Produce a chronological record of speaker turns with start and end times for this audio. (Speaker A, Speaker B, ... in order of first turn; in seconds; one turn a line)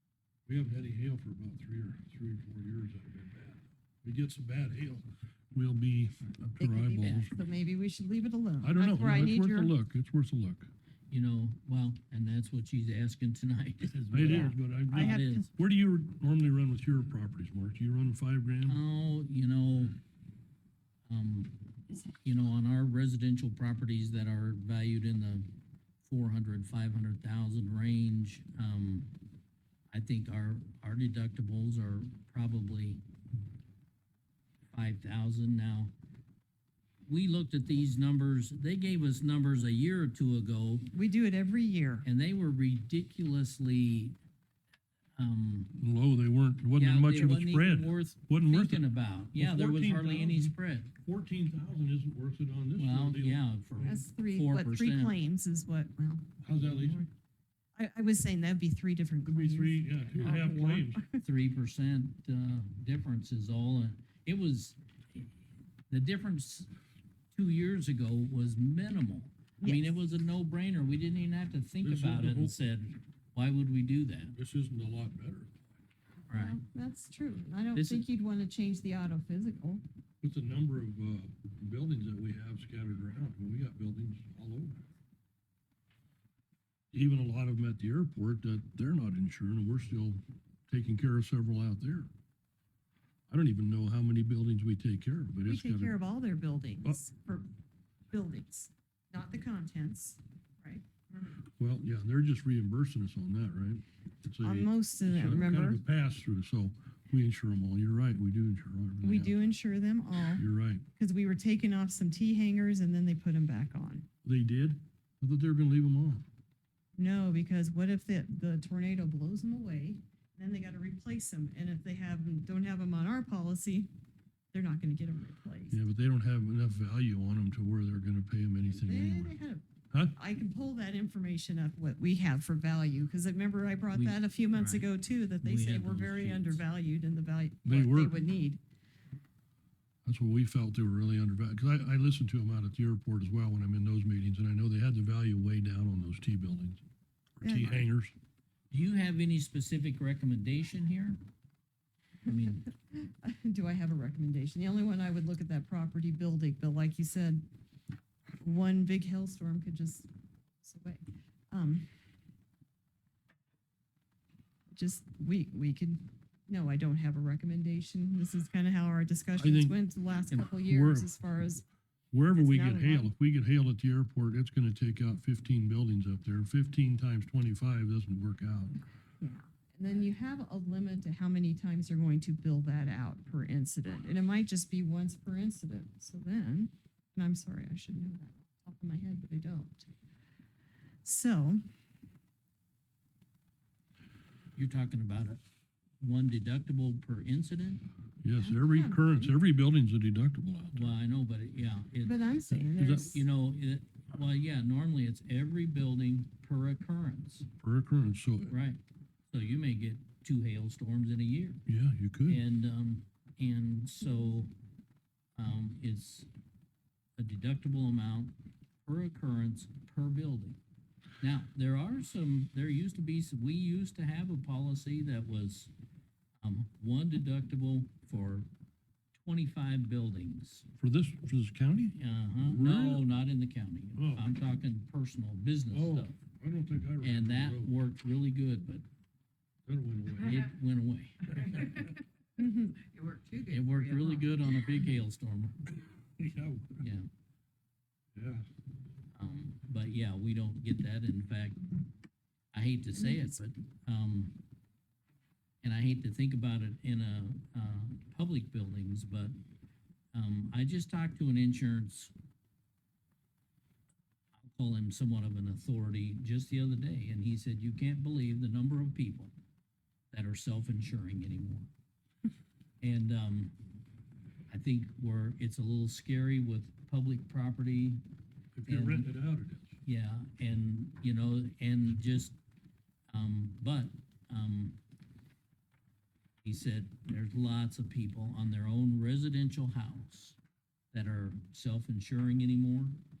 Speaker A: 0.5-7.3
Speaker B: 6.6-9.7
Speaker A: 8.6-10.7
Speaker C: 11.1-15.5
Speaker A: 14.1-18.8
Speaker B: 14.2-15.5
Speaker C: 18.6-20.0
Speaker C: 21.1-25.5
Speaker C: 26.0-29.1
Speaker C: 29.9-33.0
Speaker C: 34.7-35.9
Speaker C: 37.0-40.9
Speaker B: 40.9-42.0
Speaker C: 42.0-44.2
Speaker C: 45.2-45.7
Speaker A: 45.7-48.8
Speaker C: 46.8-50.9
Speaker A: 49.3-53.4
Speaker C: 52.8-55.1
Speaker B: 53.8-57.0
Speaker A: 56.4-57.1
Speaker B: 57.8-61.2
Speaker A: 59.2-61.0
Speaker C: 61.2-65.3
Speaker C: 65.9-66.7
Speaker C: 67.3-74.3
Speaker B: 69.6-70.0
Speaker A: 71.8-72.5
Speaker A: 74.3-75.7
Speaker C: 76.3-76.6
Speaker B: 76.3-79.8
Speaker C: 77.7-78.0
Speaker A: 80.2-84.8
Speaker A: 86.9-92.1
Speaker A: 93.3-95.9
Speaker B: 95.5-97.5
Speaker B: 98.1-101.4
Speaker A: 101.6-109.4
Speaker B: 104.4-105.8
Speaker B: 109.0-110.4
Speaker A: 110.3-110.8
Speaker B: 111.0-114.0
Speaker A: 114.2-116.2
Speaker B: 117.0-123.9
Speaker B: 124.5-125.8
Speaker A: 125.7-129.3
Speaker B: 128.7-138.6
Speaker C: 133.9-134.9
Speaker C: 135.4-136.6
Speaker A: 137.6-138.2
Speaker A: 140.0-146.8
Speaker A: 147.4-148.1
Speaker B: 147.4-147.8
Speaker C: 148.7-151.2
Speaker C: 152.2-152.7
Speaker B: 152.3-157.5
Speaker B: 158.4-160.1
Speaker B: 160.6-161.9
Speaker B: 164.7-171.6
Speaker A: 169.4-169.8
Speaker A: 170.3-171.1
Speaker A: 172.1-178.8
Speaker B: 172.3-173.1
Speaker B: 179.2-189.9
Speaker B: 191.0-191.6
Speaker C: 194.6-195.4
Speaker C: 196.0-197.8
Speaker A: 198.2-200.9
Speaker B: 198.3-199.3
Speaker C: 200.7-207.5
Speaker B: 202.0-203.2
Speaker A: 202.7-203.2
Speaker A: 207.6-208.5
Speaker C: 208.5-208.8
Speaker C: 209.3-211.6
Speaker A: 211.7-212.4
Speaker C: 212.3-214.5
Speaker C: 215.3-216.3
Speaker C: 217.2-220.6
Speaker C: 221.2-225.7
Speaker C: 226.4-228.5
Speaker C: 229.1-230.7
Speaker A: 230.8-233.1
Speaker C: 232.0-236.1
Speaker A: 233.9-234.3
Speaker A: 235.7-237.7
Speaker C: 237.0-238.8
Speaker A: 239.7-240.4
Speaker C: 240.2-241.6
Speaker D: 241.3-241.9
Speaker B: 242.4-242.8
Speaker D: 242.8-244.2
Speaker C: 243.5-245.6
Speaker A: 246.0-246.8
Speaker C: 246.8-247.1
Speaker A: 248.1-248.4
Speaker C: 249.1-251.7
Speaker C: 252.5-254.4
Speaker B: 252.9-253.4
Speaker C: 255.6-259.3
Speaker C: 260.1-262.1
Speaker C: 264.4-269.3
Speaker C: 270.1-271.7
Speaker C: 272.8-273.5
Speaker C: 274.5-278.0
Speaker A: 278.6-279.8
Speaker C: 278.6-279.1
Speaker C: 279.8-282.4
Speaker C: 283.1-284.8
Speaker C: 286.4-290.4
Speaker C: 290.9-293.0